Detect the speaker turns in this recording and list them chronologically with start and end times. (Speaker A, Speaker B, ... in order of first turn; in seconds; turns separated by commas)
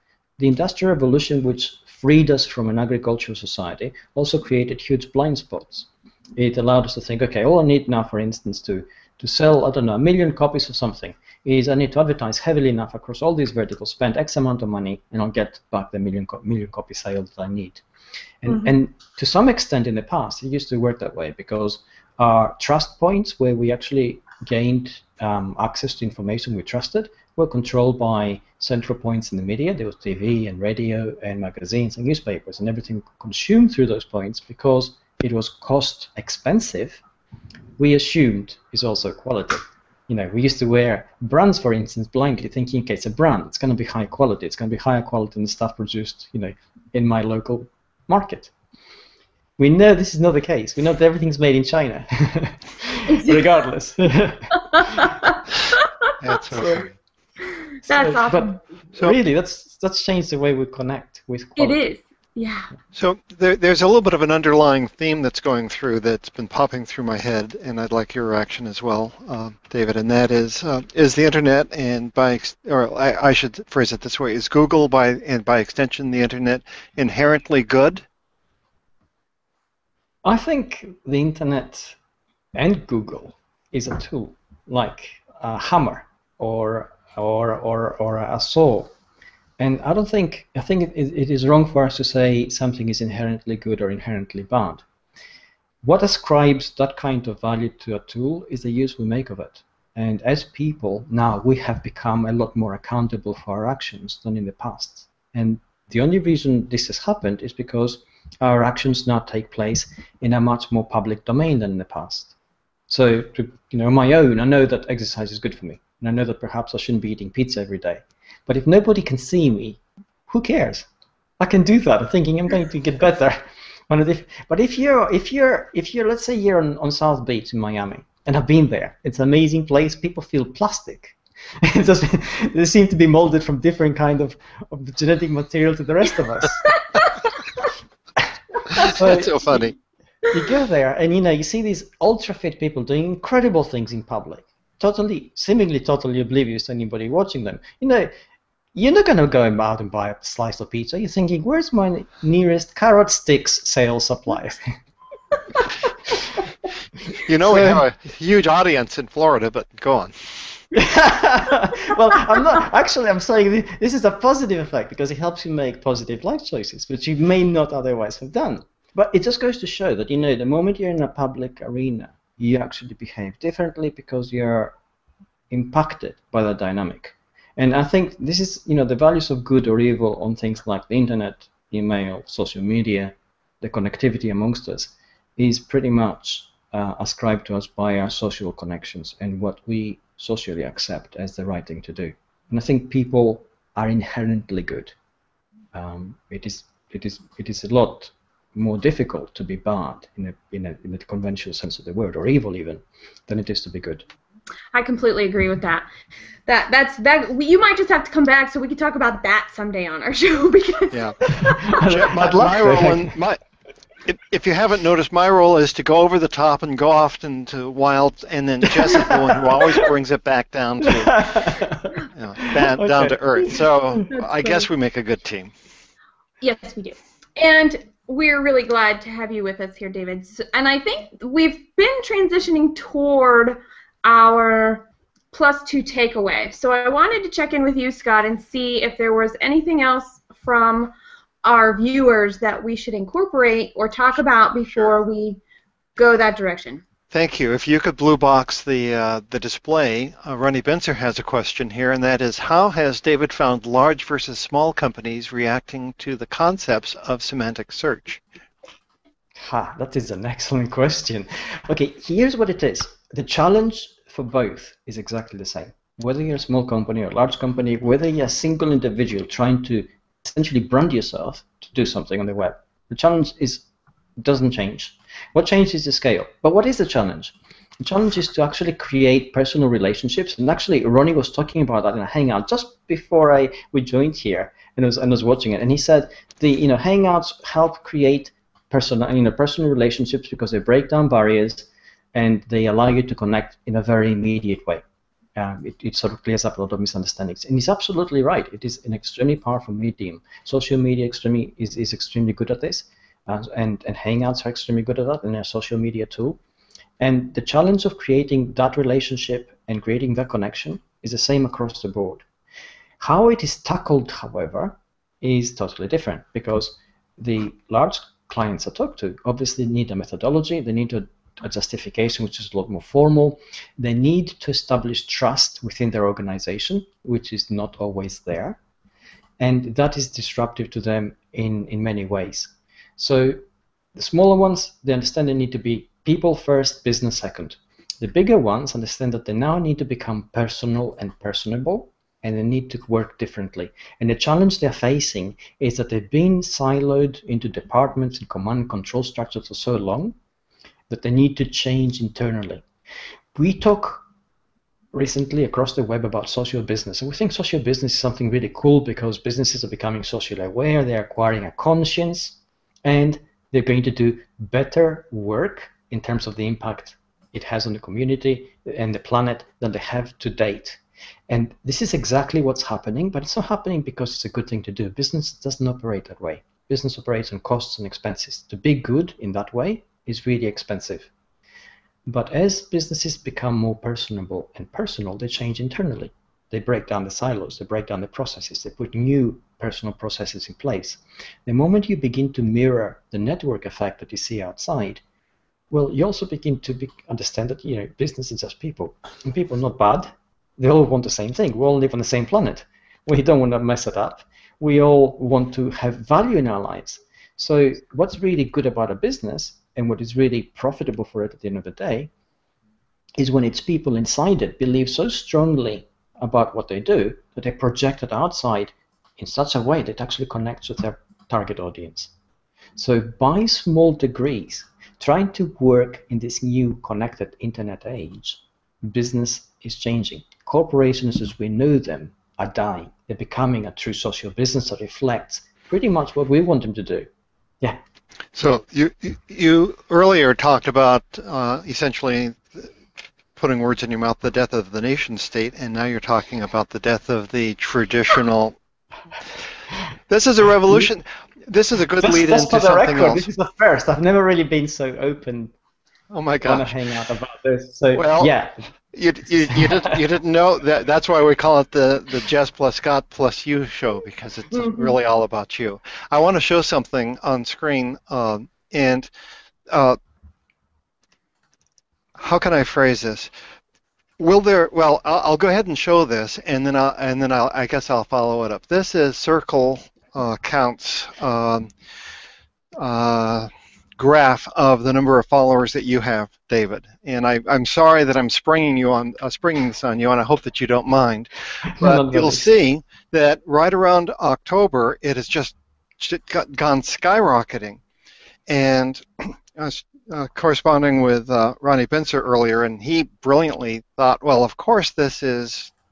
Speaker A: 0.4-17.8, Speaker A: 18.4-37.0, Speaker A: 37.8-48.5, Speaker A: 49.6-55.1, Speaker B: 53.1-53.4, Speaker B: 54.7-55.8, Speaker C: 56.2-56.9, Speaker A: 56.5-56.8, Speaker B: 57.9-58.6, Speaker A: 57.9-61.8, Speaker B: 61.5-62.7, Speaker C: 62.9-78.0, Speaker A: 80.2-82.0, Speaker A: 82.5-88.9, Speaker A: 89.6-94.8, Speaker A: 95.8-112.3, Speaker A: 112.9-120.9, Speaker A: 121.4-136.7, Speaker A: 138.2-139.7, Speaker C: 138.7-139.7, Speaker A: 140.3-148.1, Speaker A: 148.7-154.7, Speaker C: 157.2-160.1, Speaker A: 157.4-157.8, Speaker A: 160.7-174.7, Speaker A: 175.5-194.9, Speaker A: 195.7-204.1, Speaker B: 204.7-205.8, Speaker B: 206.5-211.8, Speaker C: 210.9-211.2, Speaker A: 211.3-213.1, Speaker C: 211.7-213.4, Speaker C: 214.1-221.4, Speaker A: 218.8-219.9, Speaker A: 220.8-221.9, Speaker C: 222.1-225.5, Speaker A: 222.4-224.0, Speaker B: 226.4-245.4, Speaker B: 246.0-246.8, Speaker C: 247.1-258.2, Speaker A: 259.4-273.6, Speaker A: 274.2-294.8, Speaker A: 295.4-306.4, Speaker A: 307.0-312.2, Speaker A: 313.0-328.6, Speaker A: 329.4-333.4, Speaker A: 333.9-350.1, Speaker A: 350.9-352.6, Speaker A: 353.3-354.1, Speaker A: 354.9-381.1, Speaker A: 382.1-395.0, Speaker A: 395.7-412.1, Speaker A: 413.2-422.1, Speaker A: 422.8-437.1, Speaker C: 438.3-442.7, Speaker C: 443.4-448.6, Speaker C: 450.1-453.2, Speaker A: 452.0-455.5, Speaker C: 456.1-456.7, Speaker A: 456.4-458.6, Speaker C: 457.9-458.3, Speaker C: 458.9-469.1, Speaker A: 459.5-460.0, Speaker C: 469.7-470.0, Speaker C: 472.1-473.3, Speaker C: 474.2-481.7, Speaker C: 482.8-497.8, Speaker A: 491.7-492.5, Speaker C: 498.5-505.7